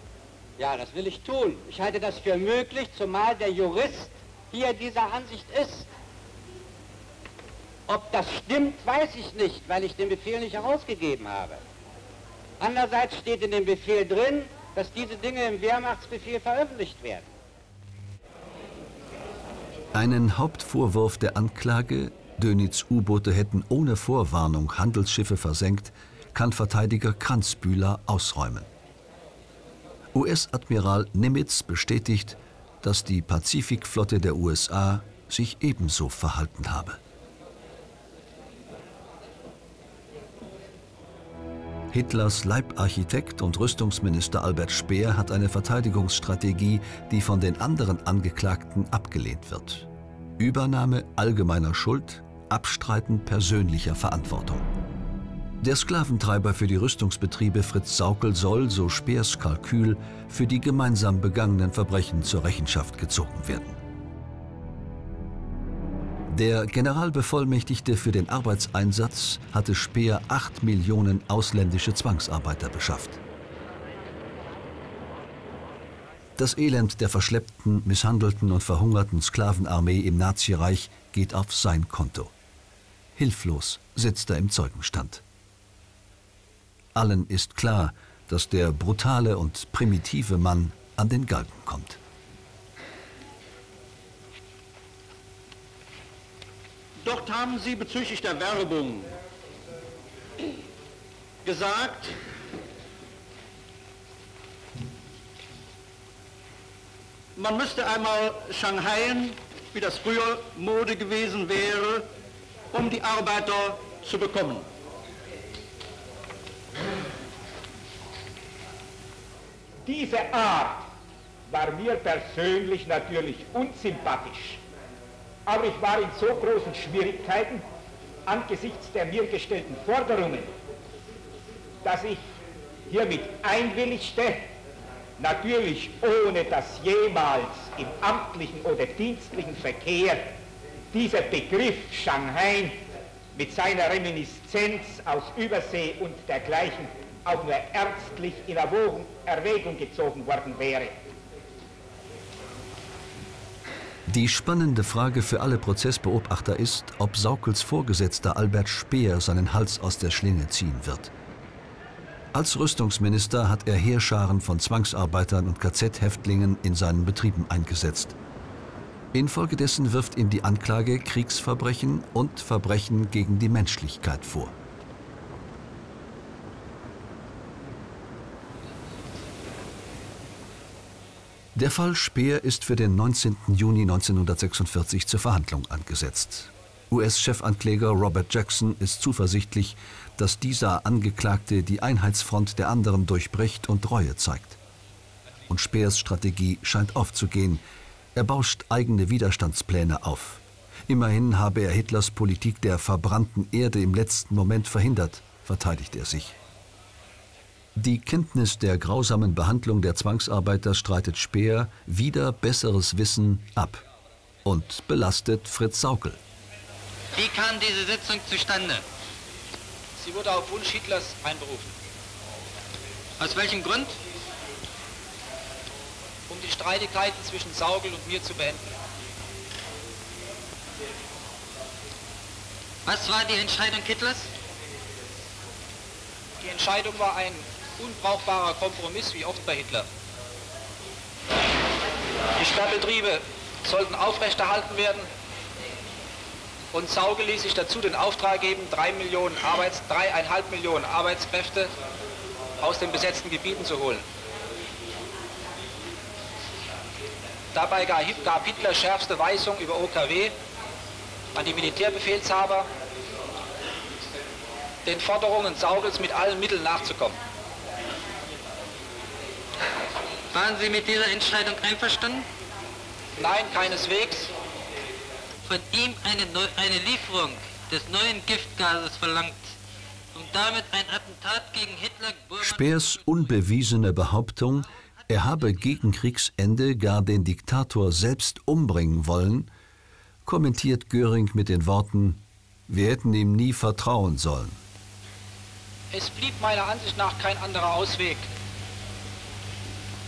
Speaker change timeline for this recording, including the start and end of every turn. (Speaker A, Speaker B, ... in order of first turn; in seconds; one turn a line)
Speaker A: 0.6-5.9
Speaker A: 7.9-11.6
Speaker A: 12.6-17.2
Speaker B: 19.9-28.7
Speaker B: 30.1-37.0
Speaker B: 41.9-49.9
Speaker B: 50.4-54.7
Speaker B: 55.6-63.8
Speaker B: 66.3-73.2
Speaker B: 76.4-82.3
Speaker B: 83.2-85.2
Speaker B: 87.0-92.0
Speaker C: 97.0-99.1
Speaker C: 101.5-102.1
Speaker C: 107.4-112.0
Speaker C: 112.7-114.6
Speaker D: 119.8-120.9
Speaker D: 121.5-124.6
Speaker D: 125.5-127.6
Speaker D: 128.2-130.5
Speaker D: 131.8-132.2
Speaker D: 132.9-134.5
Speaker D: 135.2-140.3
Speaker D: 140.9-142.8
Speaker D: 143.3-151.0
Speaker B: 154.1-161.1
Speaker B: 162.3-168.2
Speaker B: 169.1-174.5
Speaker B: 181.5-194.6
Speaker B: 195.5-197.6
Speaker B: 198.2-206.3
Speaker B: 207.8-213.8
Speaker B: 214.5-216.2
Speaker E: 217.2-218.8
Speaker F: 220.0-221.8
Speaker E: 223.2-224.0
Speaker F: 226.3-228.7
Speaker E: 232.8-234.3
Speaker F: 236.4-239.9
Speaker F: 242.4-245.1
Speaker F: 246.7-251.7
Speaker F: 252.6-254.0
Speaker F: 257.5-260.4
Speaker F: 261.3-262.7
Speaker F: 264.8-267.2
Speaker E: 270.3-272.3
Speaker F: 273.2-274.3
Speaker E: 275.5-279.5
Speaker E: 280.1-283.0
Speaker B: 282.4-289.5
Speaker B: 290.2-294.6
Speaker F: 295.9-298.3